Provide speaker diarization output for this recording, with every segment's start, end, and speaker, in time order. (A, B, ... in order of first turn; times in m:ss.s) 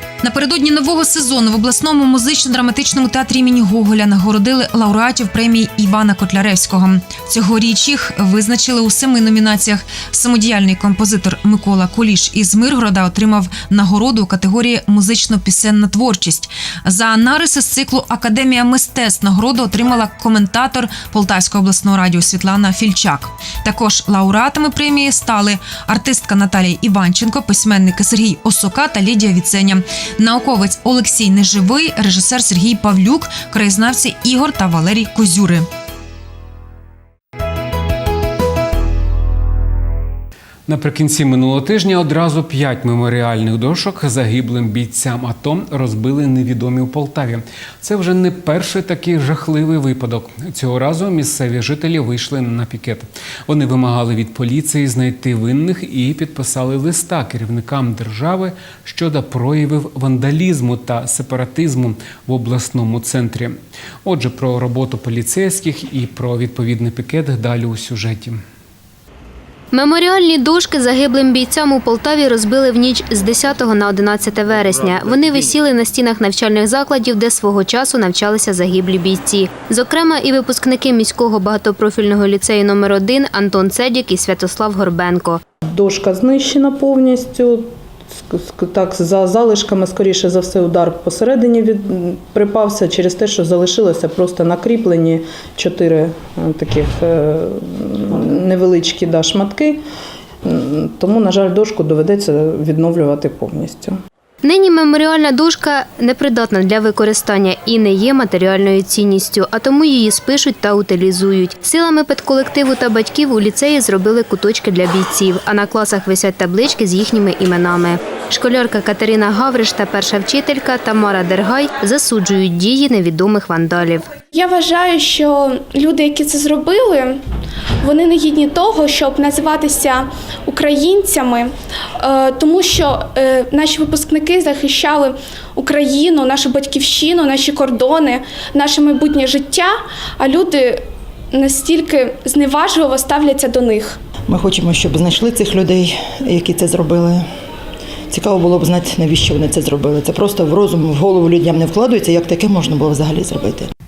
0:00.2-0:35.7 A
0:40.7-1:08.4 B
1:09.7-1:25.4 C
1:25.7-1:27.7 D
1:28.3-1:39.8 D
1:40.5-1:44.0 D
1:44.4-2:04.1 C
2:04.3-2:07.2 E
2:07.8-2:24.0 E
2:24.3-2:27.2 F
2:28.1-2:33.7 F